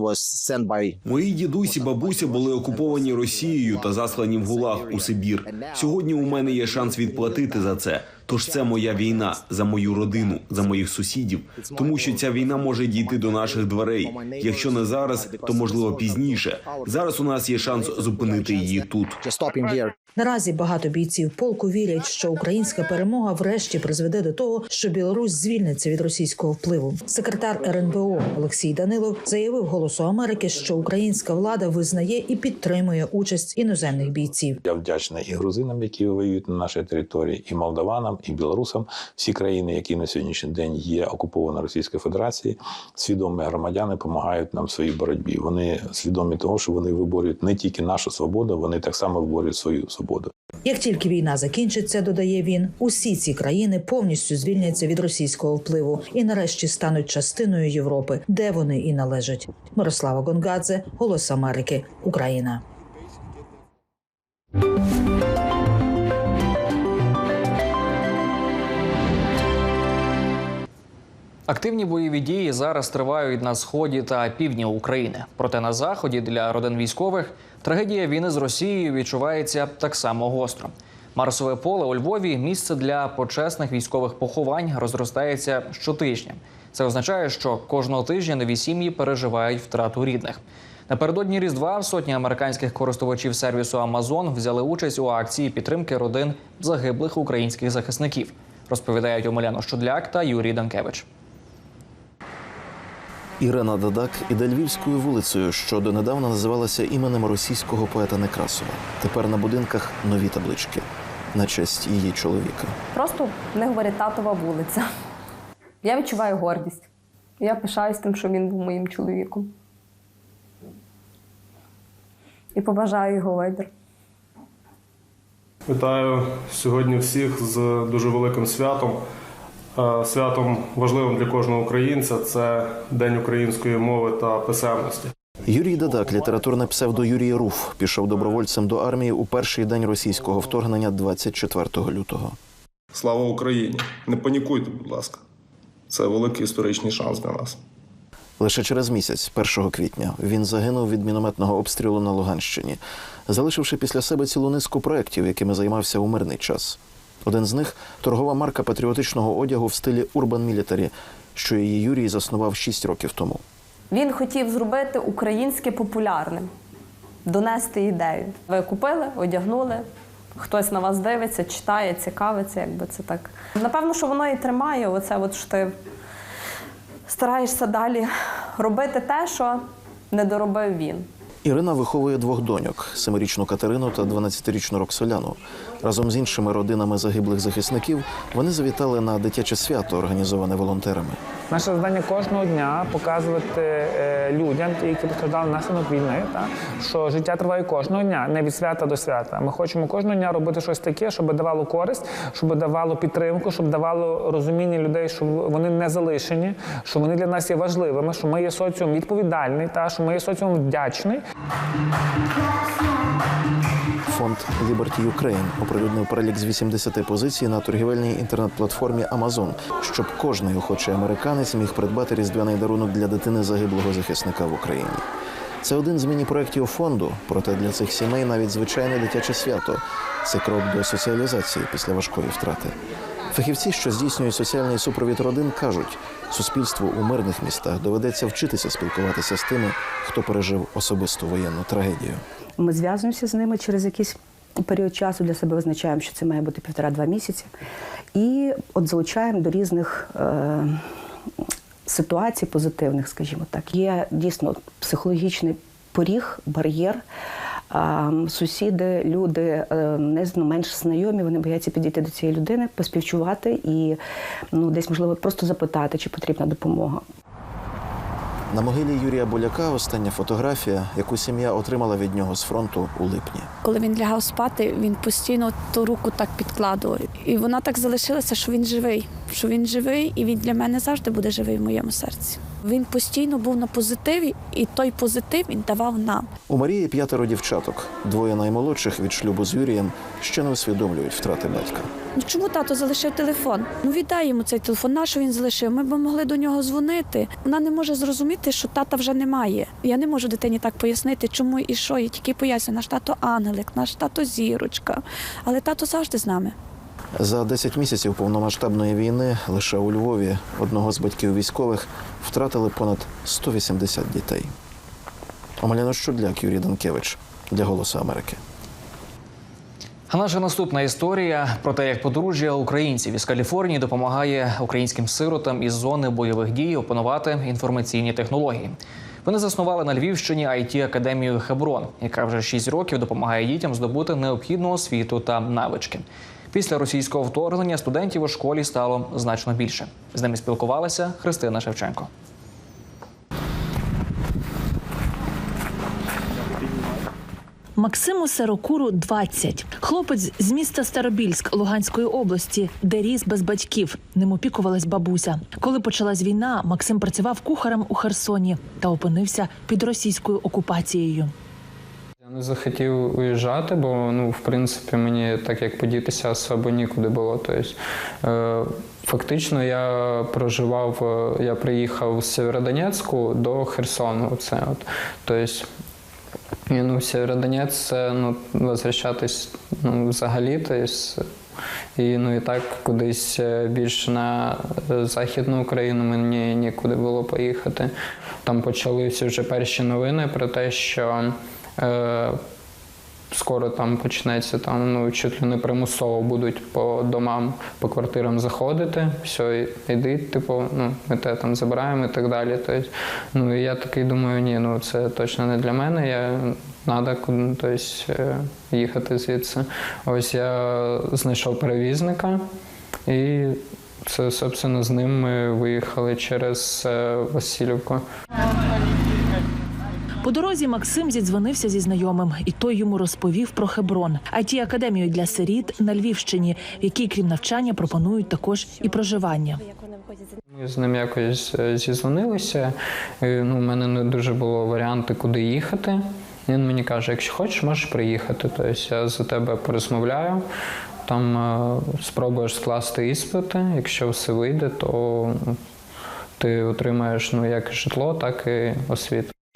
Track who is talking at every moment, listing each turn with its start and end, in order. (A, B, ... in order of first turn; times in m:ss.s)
0:01.0-0:19.2 A
0:20.2-0:34.6 B
0:34.6-0:50.3 C
0:50.6-1:02.6 B
1:11.5-1:41.1 D
1:43.4-1:52.8 E
1:53.0-1:54.9 F
1:55.8-1:56.9 F
1:57.4-1:59.5 F
2:02.5-2:03.7 F
2:05.7-2:09.0 G
2:09.8-2:15.1 G
2:15.5-2:22.4 E
2:22.9-2:25.2 G
2:25.9-2:27.6 G
2:28.4-2:43.4 E
2:43.9-2:46.5 F
2:47.2-2:55.8 F
2:57.1-3:01.1 F
3:01.4-3:11.2 E
3:11.5-3:31.2 H
3:34.1-3:45.0 E
3:45.6-3:52.8 E
3:53.3-4:02.2 E
4:02.6-4:07.5 I
4:08.2-4:10.8 I
4:11.9-4:17.0 I
4:17.7-4:24.0 I
4:24.5-4:27.0 I
4:28.5-4:33.5 E
4:33.6-4:46.3 J
4:46.5-4:51.9 E
4:52.2-5:06.5 J
5:07.2-5:14.5 E
5:15.6-5:18.4 E
5:20.1-5:42.1 D
5:47.8-6:01.3 K
6:02.2-6:15.7 L
6:16.7-6:21.3 L
6:22.0-6:27.9 L
6:28.4-6:32.4 L
6:33.3-6:52.4 L
6:53.1-6:58.0 L
7:00.2-7:09.6 K
7:10.5-7:20.4 L
7:21.0-7:25.6 L
7:26.4-7:29.3 L